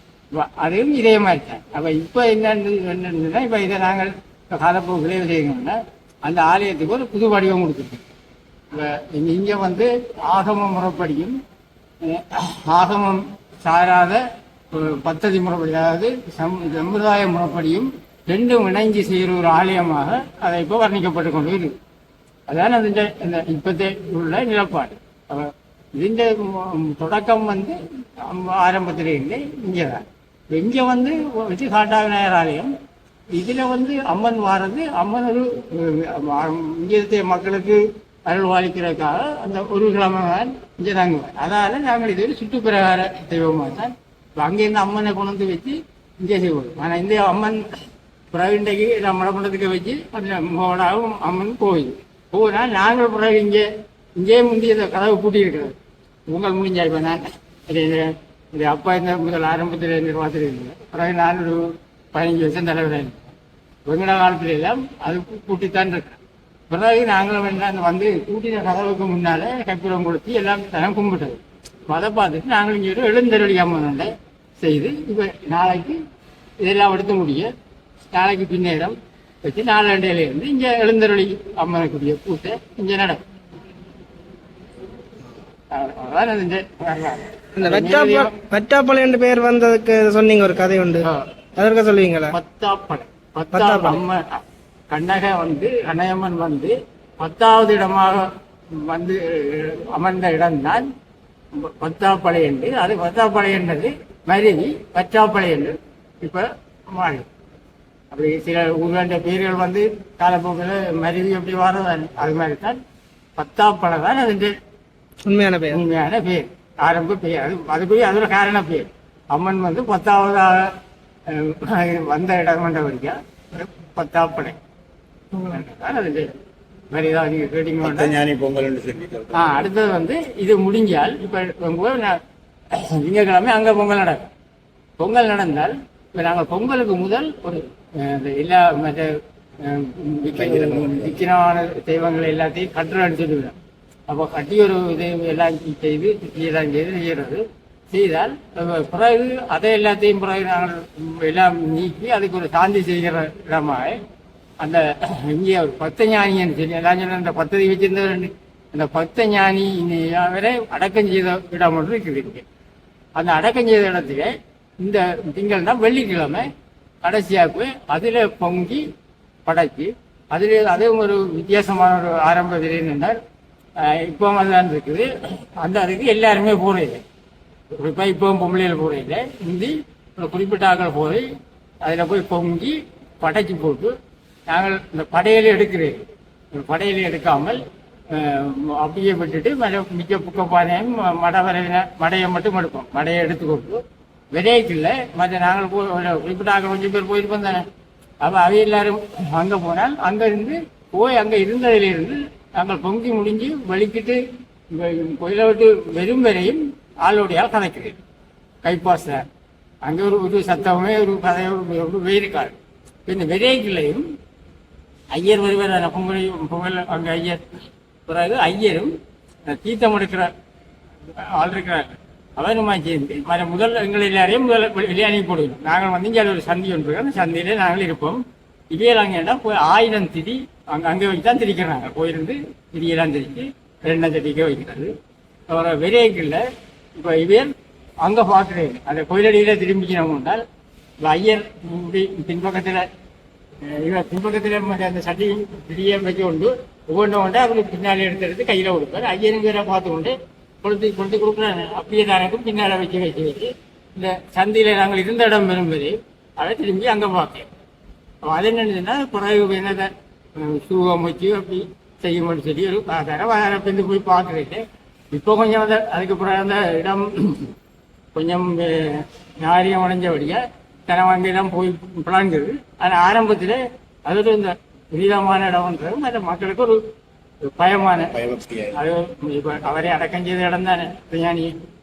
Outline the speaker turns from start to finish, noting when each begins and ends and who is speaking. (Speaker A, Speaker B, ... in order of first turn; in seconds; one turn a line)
Speaker A: 0.3-8.0
Speaker A: 8.7-11.4
Speaker A: 12.0-14.2
Speaker A: 14.7-21.8
Speaker A: 22.5-32.7
Speaker A: 33.3-47.6
Speaker A: 48.3-53.7
Speaker A: 54.2-55.8
Speaker A: 56.3-63.3
Speaker A: 63.9-66.2
Speaker A: 66.7-76.0
Speaker A: 76.6-77.5
Speaker A: 78.1-83.2
Speaker A: 85.7-88.3
Speaker B: 87.6-91.1
Speaker B: 91.6-92.3
Speaker A: 92.3-100.9
Speaker B: 93.5-94.0
Speaker A: 101.5-107.3
Speaker A: 108.1-112.8
Speaker A: 113.4-114.5
Speaker B: 115.3-115.8
Speaker A: 115.7-120.7
Speaker A: 121.3-124.6
Speaker A: 125.5-126.3
Speaker A: 126.9-128.1
Speaker C: 127.8-129.6
Speaker A: 129.3-132.2
Speaker A: 132.7-134.3
Speaker A: 135.0-143.6
Speaker C: 140.3-141.2
Speaker A: 144.1-154.0
Speaker A: 154.6-162.4
Speaker A: 163.2-166.5
Speaker A: 167.0-168.8
Speaker A: 169.5-173.2
Speaker A: 173.8-175.1
Speaker A: 175.6-177.0
Speaker A: 177.8-181.3
Speaker A: 181.8-183.9
Speaker A: 184.5-186.0
Speaker A: 186.6-187.6
Speaker A: 188.1-193.8
Speaker A: 194.3-197.7
Speaker A: 198.2-208.0
Speaker A: 208.6-209.2
Speaker A: 209.8-214.1
Speaker A: 215.1-217.4
Speaker A: 218.1-219.0
Speaker A: 219.5-220.3
Speaker A: 221.3-234.9
Speaker A: 235.5-236.4
Speaker A: 237.0-240.4
Speaker A: 241.0-242.9
Speaker A: 243.6-257.5
Speaker A: 258.3-267.5
Speaker A: 268.1-276.8
Speaker A: 277.5-278.2
Speaker C: 278.1-278.8
Speaker A: 278.7-281.5